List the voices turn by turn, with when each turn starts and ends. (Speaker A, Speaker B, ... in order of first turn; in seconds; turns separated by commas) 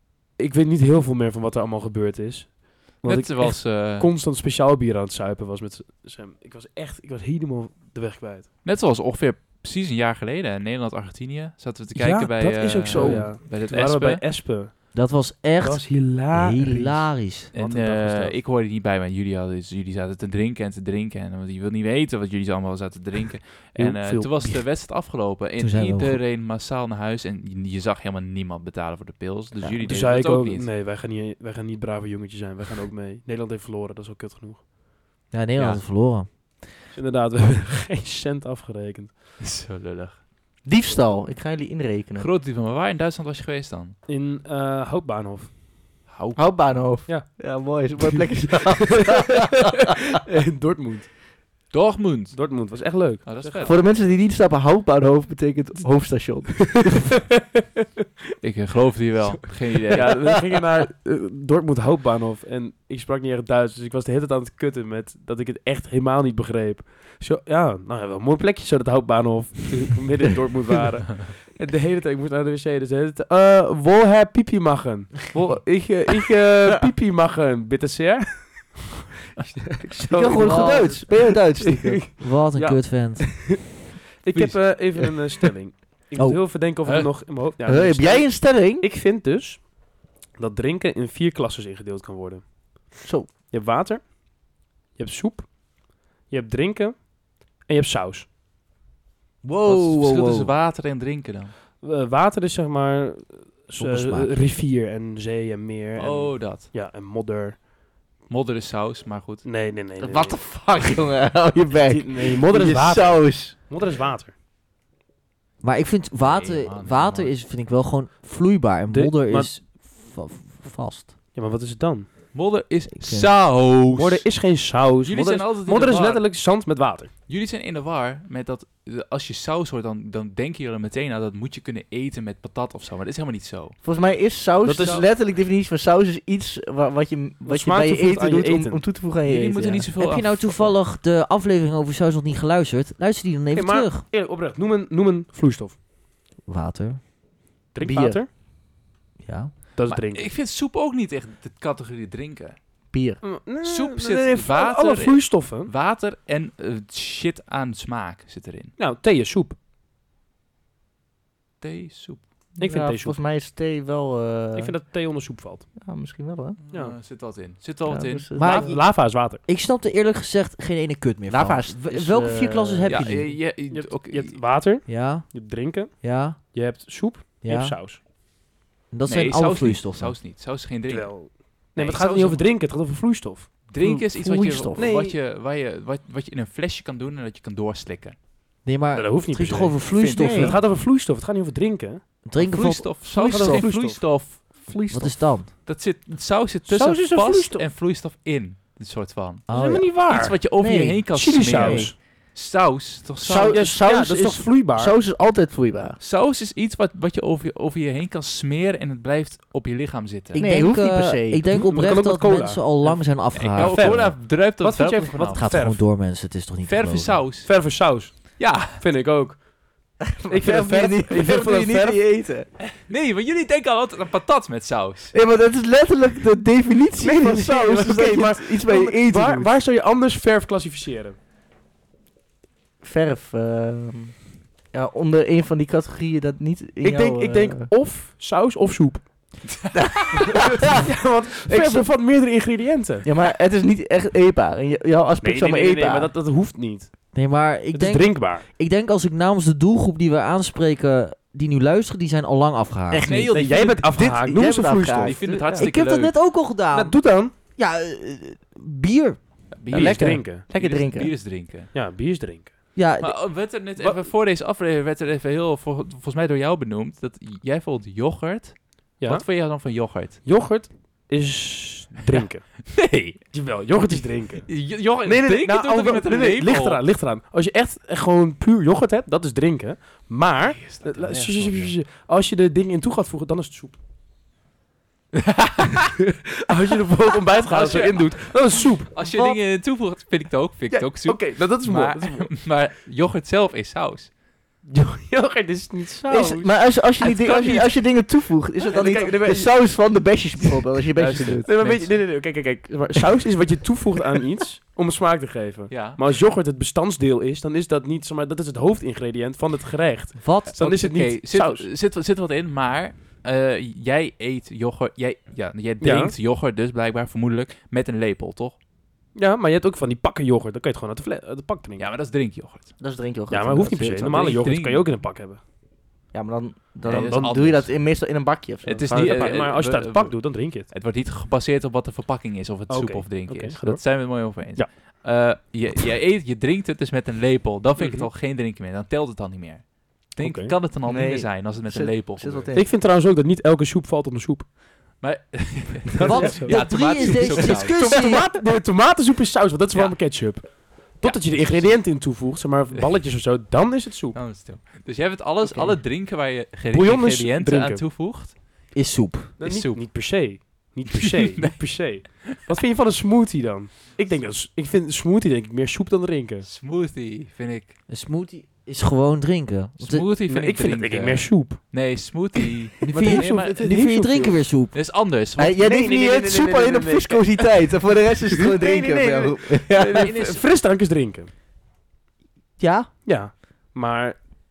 Speaker A: 0.4-8.5, Speaker B: 3.0-4.1, Speaker B: 8.6-14.2, Speaker A: 12.0-14.9, Speaker C: 12.9-13.3, Speaker C: 14.9-17.5, Speaker A: 15.6-18.4, Speaker B: 17.5-30.7, Speaker C: 23.8-24.6, Speaker C: 25.6-26.2, Speaker A: 29.8-34.6, Speaker C: 35.3-36.4, Speaker B: 35.5-35.8, Speaker A: 36.9-39.1, Speaker B: 39.4-40.2, Speaker D: 40.6-42.3, Speaker B: 42.2-44.0, Speaker A: 44.1-45.5, Speaker B: 46.1-47.0, Speaker D: 46.4-49.6, Speaker A: 47.1-47.6, Speaker A: 48.6-49.7, Speaker A: 50.2-51.1, Speaker B: 51.7-54.2, Speaker A: 52.3-53.7, Speaker D: 53.6-57.1, Speaker B: 58.4-60.4, Speaker A: 59.9-78.9, Speaker A: 79.5-83.6, Speaker D: 80.1-82.1, Speaker C: 80.3-81.0, Speaker C: 82.2-83.6, Speaker A: 84.2-89.8, Speaker B: 84.3-84.7, Speaker C: 86.2-86.4, Speaker B: 86.8-87.1, Speaker D: 87.6-88.8, Speaker A: 90.3-92.9, Speaker D: 93.0-93.3, Speaker A: 93.5-94.2, Speaker A: 94.9-95.6, Speaker A: 96.2-98.3, Speaker C: 99.4-100.5, Speaker B: 99.6-101.5, Speaker A: 101.8-107.6, Speaker C: 103.8-104.5, Speaker B: 106.0-106.7, Speaker B: 108.3-109.5, Speaker A: 109.4-110.4, Speaker D: 110.0-113.6, Speaker A: 111.8-114.3, Speaker C: 115.6-121.1, Speaker B: 116.2-117.4, Speaker A: 118.9-119.5, Speaker A: 121.3-122.1, Speaker B: 122.3-124.2, Speaker C: 123.0-123.3, Speaker A: 123.9-127.1, Speaker B: 125.0-126.3, Speaker B: 127.3-133.8, Speaker D: 133.8-139.9, Speaker A: 134.6-135.1, Speaker A: 137.4-138.8, Speaker B: 139.2-140.7, Speaker C: 140.0-144.0, Speaker A: 143.5-145.8, Speaker C: 146.4-147.0, Speaker A: 147.7-148.3, Speaker D: 147.8-148.2, Speaker C: 149.2-149.6, Speaker A: 149.8-150.3, Speaker B: 149.9-152.6, Speaker D: 152.9-153.2, Speaker A: 153.2-155.7, Speaker B: 153.6-158.8, Speaker A: 158.8-159.5, Speaker B: 161.6-162.2, Speaker D: 162.6-164.8, Speaker A: 162.6-163.2, Speaker A: 164.5-165.7, Speaker D: 165.8-166.6, Speaker B: 166.6-168.5, Speaker A: 166.7-167.0, Speaker D: 167.8-168.7, Speaker C: 168.3-173.4, Speaker A: 168.4-169.4, Speaker D: 171.3-173.0, Speaker B: 172.8-174.4, Speaker A: 173.5-178.0, Speaker C: 174.8-176.4, Speaker C: 177.4-177.8, Speaker C: 178.9-180.2, Speaker B: 179.1-182.5, Speaker A: 180.9-183.5, Speaker B: 183.7-188.2, Speaker D: 183.8-184.9, Speaker A: 184.8-185.2, Speaker C: 188.6-190.6, Speaker A: 188.9-192.0, Speaker B: 190.0-190.5, Speaker D: 190.0-190.5, Speaker C: 192.2-193.0, Speaker B: 192.4-194.7, Speaker A: 193.1-194.0, Speaker D: 193.1-193.6, Speaker D: 194.6-195.2, Speaker C: 194.9-195.5, Speaker B: 195.5-203.7, Speaker A: 196.7-197.7, Speaker C: 199.5-199.9, Speaker A: 199.5-200.6, Speaker D: 200.6-201.9, Speaker A: 201.1-202.0, Speaker D: 203.2-206.0, Speaker A: 203.3-204.9, Speaker B: 206.0-210.4, Speaker D: 210.3-211.5, Speaker C: 210.3-214.1, Speaker A: 211.5-215.8, Speaker B: 213.3-215.4, Speaker C: 215.3-217.2, Speaker B: 216.6-217.7, Speaker A: 217.4-219.5, Speaker B: 218.4-218.8, Speaker D: 220.0-222.5, Speaker A: 220.3-222.0, Speaker B: 222.7-225.1, Speaker D: 225.1-229.5, Speaker A: 227.0-231.2, Speaker D: 232.8-237.7, Speaker A: 236.8-239.1, Speaker D: 239.7-241.9, Speaker A: 240.2-243.1, Speaker D: 243.0-246.1, Speaker A: 245.2-246.9, Speaker C: 247.1-253.1, Speaker A: 247.7-248.4, Speaker D: 252.9-253.2, Speaker B: 253.0-253.9, Speaker A: 253.1-255.5, Speaker D: 253.9-255.6, Speaker B: 255.0-256.1, Speaker C: 255.4-259.2, Speaker A: 256.7-257.3, Speaker B: 259.5-261.7, Speaker A: 259.7-260.4, Speaker D: 259.7-261.1, Speaker A: 261.7-262.5, Speaker C: 262.7-263.1, Speaker B: 263.0-270.2, Speaker A: 263.8-264.1, Speaker A: 269.0-272.8, Speaker B: 272.7-273.3, Speaker A: 273.3-283.8, Speaker B: 274.5-276.8, Speaker B: 280.6-281.7, Speaker B: 285.1-285.9, Speaker A: 286.4-288.9, Speaker B: 287.4-294.1, Speaker A: 290.7-292.3, Speaker A: 294.7-297.7, Speaker D: 296.1-301.5, Speaker A: 298.6-299.9, Speaker B: 300.9-302.0, Speaker A: 301.4-311.7, Speaker B: 305.7-306.0, Speaker C: 310.2-310.6, Speaker B: 310.5-318.6, Speaker A: 315.8-316.1, Speaker A: 319.1-321.8, Speaker B: 321.8-322.8, Speaker D: 322.8-324.4, Speaker A: 323.3-325.4, Speaker B: 324.1-324.9, Speaker D: 326.1-329.2, Speaker A: 326.8-327.4, Speaker B: 326.9-327.7, Speaker B: 328.6-342.5, Speaker A: 328.7-330.7, Speaker A: 332.7-334.7, Speaker A: 337.8-338.1, Speaker A: 340.2-340.5, Speaker D: 340.8-342.7, Speaker A: 342.5-344.5, Speaker B: 345.0-347.8, Speaker A: 345.9-354.2, Speaker C: 346.0-348.3, Speaker B: 349.7-351.9, Speaker B: 354.1-358.4, Speaker A: 356.7-357.8, Speaker C: 358.7-359.4, Speaker A: 359.4-366.5, Speaker B: 359.4-359.9, Speaker B: 361.1-362.4, Speaker B: 366.4-367.8, Speaker C: 367.9-370.1, Speaker B: 369.8-373.7, Speaker A: 370.3-371.7, Speaker C: 372.8-374.8, Speaker A: 372.9-374.4, Speaker B: 374.7-375.6, Speaker D: 375.4-380.1, Speaker A: 375.6-377.6, Speaker A: 378.3-381.3, Speaker B: 379.9-380.5, Speaker C: 382.6-382.9, Speaker A: 383.0-384.2